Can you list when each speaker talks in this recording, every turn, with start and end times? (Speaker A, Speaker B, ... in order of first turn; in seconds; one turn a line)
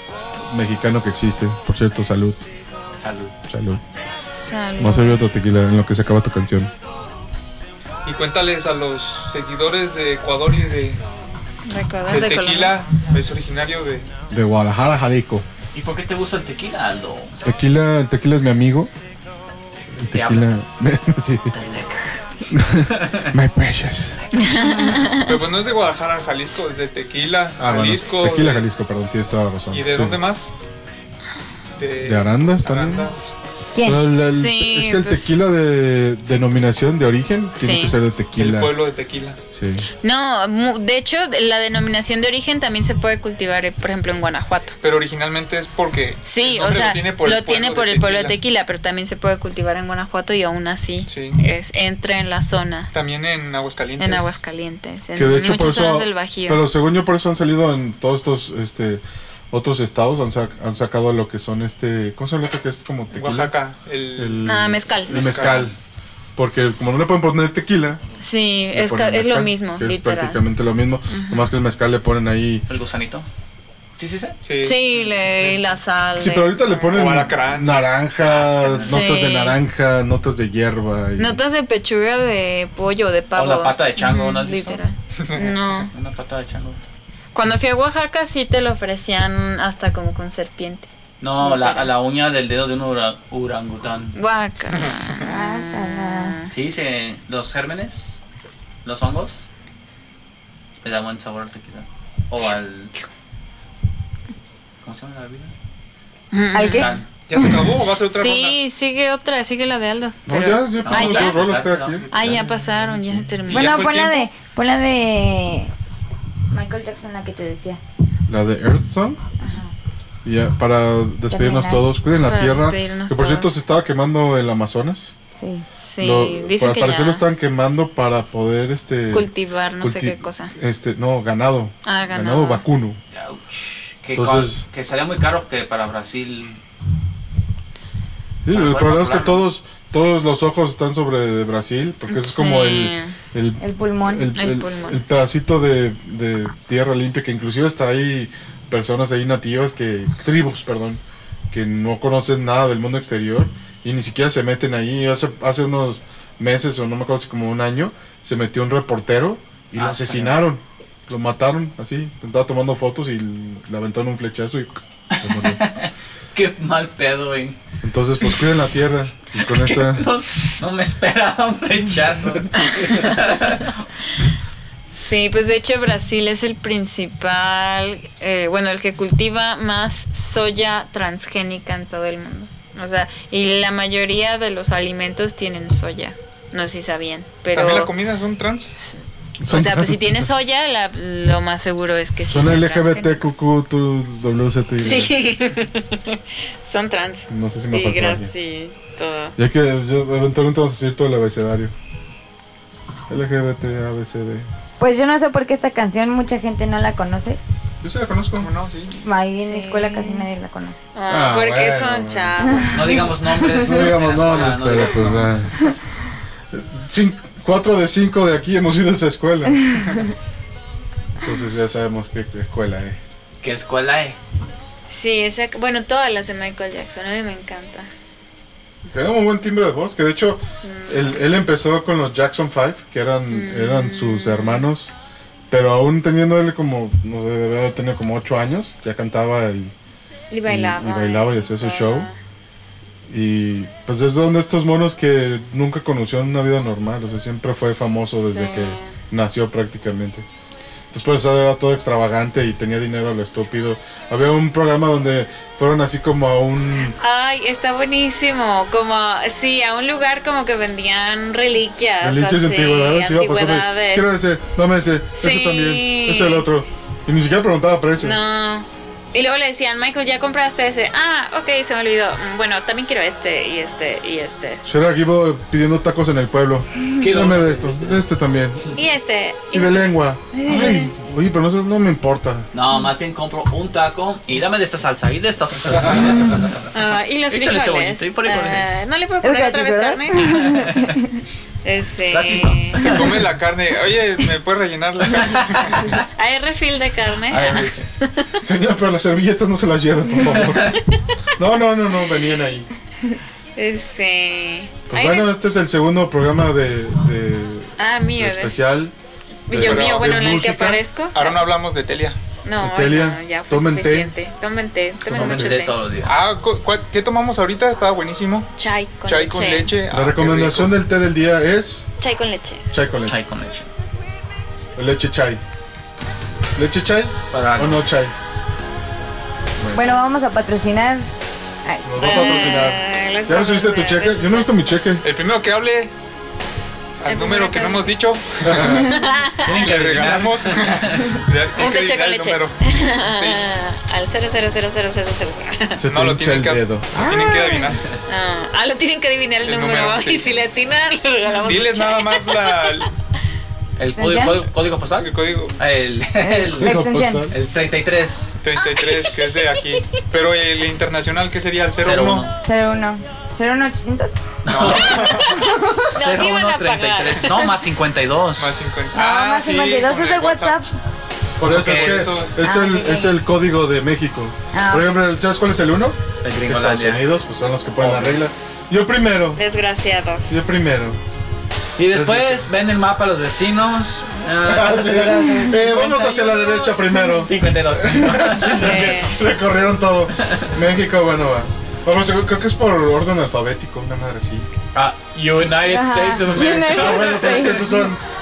Speaker A: 0.4-2.4
Speaker B: 3.0-3.3
Speaker A: 3.5-3.8
Speaker C: 4.3-5.3
Speaker A: 4.8-6.7
Speaker D: 8.1-11.0
Speaker C: 11.7-12.8
Speaker D: 12.1-14.1
Speaker A: 14.3-15.4
Speaker B: 15.7-17.4
Speaker A: 17.4-18.9
Speaker A: 19.9-21.6
Speaker B: 20.1-20.5
Speaker B: 21.5-22.2
Speaker A: 22.5-24.2
Speaker B: 22.7-23.3
Speaker C: 24.3-25.3
Speaker B: 24.4-25.1
Speaker D: 25.1-28.6
Speaker A: 27.6-30.2
Speaker D: 29.7-30.5
Speaker D: 31.8-33.3
Speaker A: 32.0-33.1
Speaker E: 33.8-34.0
Speaker A: 33.8-38.8
Speaker C: 34.3-35.4
Speaker C: 37.6-38.0
Speaker D: 38.4-39.4
Speaker A: 39.5-39.9
Speaker C: 40.0-44.8
Speaker D: 44.8-48.4
Speaker C: 46.2-52.9
Speaker D: 51.1-51.4
Speaker D: 52.9-54.4
Speaker C: 54.0-56.6
Speaker A: 55.2-63.5
Speaker D: 63.1-65.7
Speaker A: 64.2-65.7
Speaker C: 64.5-65.6
Speaker B: 65.3-65.7
Speaker A: 66.4-68.0
Speaker C: 68.2-70.4
Speaker A: 68.7-72.7
Speaker C: 71.1-71.5
Speaker B: 72.7-73.3
Speaker B: 74.0-74.4
Speaker D: 74.4-74.8
Speaker C: 74.6-77.1
Speaker B: 75.1-75.7
Speaker A: 76.2-81.4
Speaker D: 76.9-77.9
Speaker B: 78.2-79.1
Speaker C: 78.9-79.6
Speaker C: 81.2-85.9
Speaker B: 83.3-84.8
Speaker B: 85.9-86.8
Speaker C: 87.3-90.9
Speaker B: 91.2-94.2
Speaker C: 91.4-91.9
Speaker C: 94.2-96.5
Speaker E: 95.2-96.4
Speaker B: 96.5-98.2
Speaker B: 98.8-99.5
Speaker B: 100.8-102.9
Speaker B: 104.8-105.5
Speaker C: 106.3-107.0
Speaker E: 106.5-107.6
Speaker B: 106.6-107.0
Speaker D: 107.3-108.6
Speaker C: 108.1-111.4
Speaker A: 110.3-112.1
Speaker B: 110.8-113.0
Speaker C: 112.1-113.9
Speaker D: 113.5-114.2
Speaker E: 113.5-115.7
Speaker E: 116.5-117.8
Speaker A: 118.3-119.2
Speaker E: 119.4-119.7
Speaker A: 120.2-125.1
Speaker E: 121.3-121.8
Speaker C: 122.2-123.5
Speaker E: 125.3-125.7
Speaker C: 125.8-127.2
Speaker A: 126.0-133.0
Speaker C: 129.1-130.5
Speaker C: 131.8-132.6
Speaker B: 133.1-136.6
Speaker A: 134.2-134.6
Speaker A: 138.4-165.6
Speaker B: 138.5-139.5
Speaker C: 142.1-143.2
Speaker E: 143.6-144.3
Speaker C: 144.3-145.0
Speaker B: 159.8-160.4
Speaker B: 165.1-167.6
Speaker A: 167.8-170.1
Speaker B: 169.4-173.8
Speaker A: 172.3-172.7
Speaker C: 174.9-187.9
Speaker D: 187.5-188.8
Speaker C: 188.8-193.2
Speaker A: 189.4-190.3
Speaker A: 192.3-195.1
Speaker C: 194.8-199.3
Speaker A: 197.3-198.3
Speaker A: 199.4-201.7
Speaker A: 203.1-204.5
Speaker E: 204.8-207.4
Speaker A: 207.8-208.5
Speaker D: 208.4-208.9
Speaker E: 208.9-210.8
Speaker C: 209.4-210.3
Speaker C: 210.9-213.1
Speaker A: 211.1-212.8
Speaker E: 212.4-213.6
Speaker B: 212.7-215.4
Speaker A: 213.5-215.7
Speaker A: 216.5-219.8
Speaker A: 221.2-223.0
Speaker B: 223.4-224.2
Speaker C: 224.9-227.9
Speaker A: 228.9-234.9
Speaker C: 230.6-231.3
Speaker C: 233.3-234.6
Speaker A: 235.5-239.7
Speaker C: 240.3-242.2
Speaker A: 240.5-242.1
Speaker A: 243.1-250.3
Speaker C: 248.1-248.9
Speaker A: 250.9-257.0
Speaker C: 257.0-264.1
Speaker A: 262.0-268.2
Speaker C: 265.2-266.5
Speaker C: 268.0-274.6
Speaker A: 274.7-278.6
Speaker B: 277.0-278.1
Speaker C: 278.8-280.0
Speaker A: 279.5-282.5
Speaker E: 280.3-280.9
Speaker B: 282.5-286.7
Speaker C: 286.7-290.6
Speaker B: 287.3-288.7
Speaker E: 289.2-291.2
Speaker B: 290.4-291.0
Speaker C: 291.6-293.0
Speaker B: 292.1-293.2
Speaker D: 292.8-295.9
Speaker B: 295.1-296.0
Speaker C: 296.1-298.3
Speaker B: 297.3-297.9
Speaker A: 298.4-300.8
Speaker B: 300.4-300.8
Speaker A: 301.4-302.7
Speaker C: 303.6-305.3
Speaker A: 304.9-308.9
Speaker C: 307.8-308.6
Speaker C: 309.5-311.4
Speaker A: 309.5-310.8
Speaker D: 309.5-310.3
Speaker D: 311.1-312.2
Speaker C: 312.4-315.7
Speaker A: 312.6-314.1
Speaker A: 315.1-315.6
Speaker B: 315.1-316.2
Speaker D: 316.0-318.5
Speaker C: 318.6-319.7
Speaker D: 319.1-320.8
Speaker A: 319.9-321.9
Speaker C: 322.0-322.6
Speaker A: 322.7-323.2
Speaker B: 323.1-323.7
Speaker A: 324.8-325.4
Speaker A: 326.6-328.1
Speaker B: 327.3-327.9
Speaker A: 329.6-329.9
Speaker E: 329.7-331.1
Speaker E: 331.6-332.6
Speaker A: 331.9-335.0
Speaker C: 332.0-334.5
Speaker D: 335.0-335.9
Speaker D: 337.0-338.8
Speaker C: 337.1-337.9
Speaker A: 338.4-339.0
Speaker C: 338.9-339.6
Speaker B: 339.4-341.2
Speaker D: 339.5-343.4
Speaker C: 341.6-345.8
Speaker A: 345.8-347.5
Speaker D: 345.9-347.8
Speaker C: 348.1-352.9
Speaker D: 349.4-350.4
Speaker D: 351.4-352.9
Speaker B: 353.8-356.8
Speaker E: 353.9-354.4
Speaker D: 355.0-355.6
Speaker E: 356.2-357.3
Speaker A: 356.6-357.3
Speaker B: 357.3-358.4
Speaker D: 358.4-362.3
Speaker B: 361.8-362.3
Speaker E: 362.4-364.2
Speaker B: 364.4-368.6
Speaker D: 364.5-365.4
Speaker E: 365.2-366.2
Speaker C: 365.9-367.5
Speaker D: 368.4-370.6
Speaker E: 368.9-370.7
Speaker A: 371.4-379.4
Speaker B: 371.5-372.3
Speaker D: 371.5-372.4
Speaker E: 372.4-373.2
Speaker E: 374.5-375.0
Speaker B: 376.2-377.1
Speaker B: 377.8-378.2
Speaker C: 379.4-380.4
Speaker A: 380.3-381.0
Speaker B: 381.8-388.9
Speaker A: 381.9-382.5
Speaker A: 384.4-394.5
Speaker E: 384.8-387.3
Speaker C: 388.6-389.2
Speaker B: 390.2-390.5
Speaker B: 394.8-397.6
Speaker E: 395.6-397.9
Speaker A: 396.7-398.0